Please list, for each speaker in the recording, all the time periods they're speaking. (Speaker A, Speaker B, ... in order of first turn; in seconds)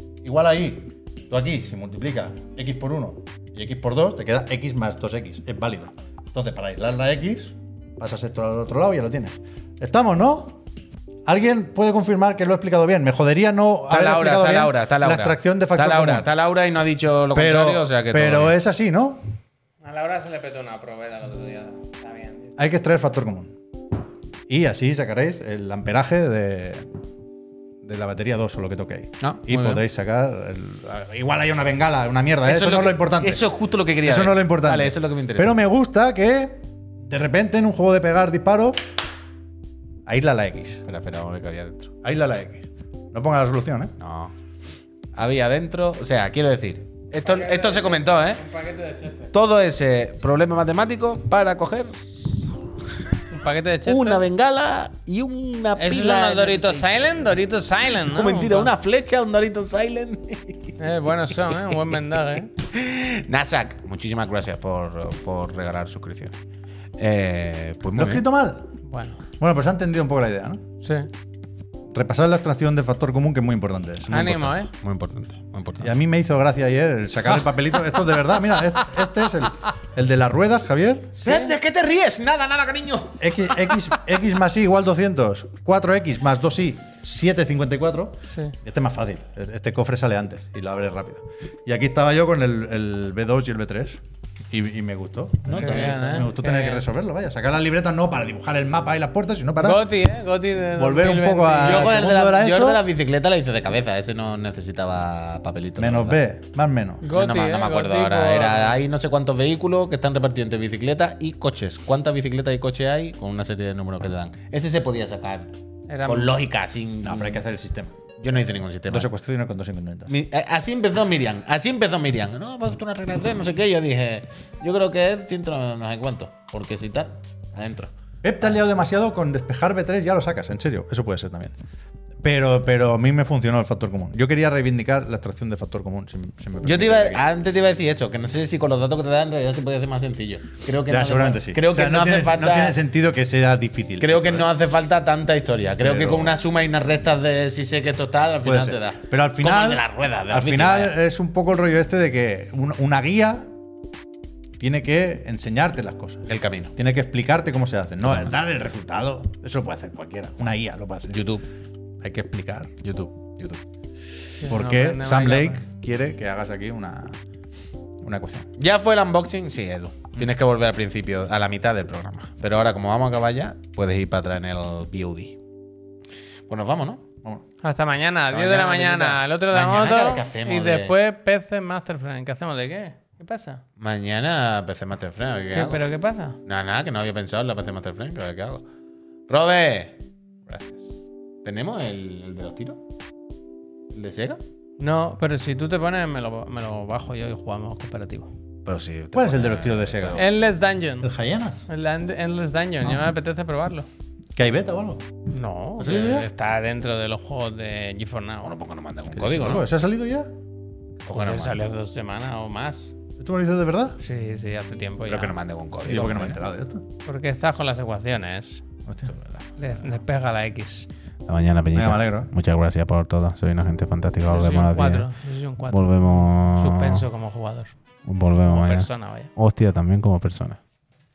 Speaker A: 0.2-10.6, 11.3-16.3, 17.3-19.2, 22.6-23.5, 24.5-26.9, 27.8-33.4, 34.0-38.8, 40.1-40.8, 42.0-43.9, 68.0-68.7, 69.4-70.6, 71.9-74.4, 75.8-81.2, 83.2-99.8, 100.8-102.8, 105.8-107.1, 117.0-117.9, 118.9-120.1, 128.2-131.6, 132.2-137.2, 140.9-144.5, 145.8-146.3, 148.4-153.5, 154.6-156.2, 156.8-161.2, 162.0-162.7, 164.5-167.2, 168.0-168.5, 199.1-200.2, 201.0-201.6, 204.4-205.0, 205.8-206.3, 209.1-210.3, 213.2-214.0, 215.8-216.8, 218.9-219.1, 221.8-222.3
Speaker B: 13.9-18.6, 29.2-29.8, 32.5-35.5, 40.9-41.9, 44.0-44.3, 45.1-48.4, 49.3-52.3, 53.9-57.1, 58.1-60.7, 62.6-66.4, 67.0-68.2, 74.1-75.9, 81.2-84.0, 95.5-96.0, 101.6-106.2, 107.1-115.5, 116.1-117.4, 118.2-119.1, 120.1-127.9, 136.6-142.8, 144.0-151.0, 156.3-156.7, 161.1-161.4, 162.8-163.6, 168.6-175.4, 176.5-177.0, 178.3-181.0, 183.8-185.8, 186.4-188.6, 189.3-190.0, 191.4-192.8, 193.9-194.4, 198.7-200.2, 208.4-209.7, 211.1-211.6, 215.1-216.4, 221.3-225.1, 225.7-227.1, 228.1-230.6
Speaker C: 19.8-22.5, 47.2-49.3, 53.3-54.2, 55.8-58.7, 60.8-62.5, 68.9-69.2, 70.8-71.1, 74.1-74.7, 81.2-81.5, 88.3-88.5, 95.6-96.8, 99.6-102.0, 107.0-108.8, 115.9-116.3, 164.4-165.6, 177.6-183.6, 185.5-186.4, 190.5-190.9, 194.8-198.3, 200.2-201.1, 201.7-203.9, 205.3-208.5, 211.1-212.9, 214.0-215.4, 217.1-218.6, 219.6-220.9, 224.3-227.8, 228.5-229.3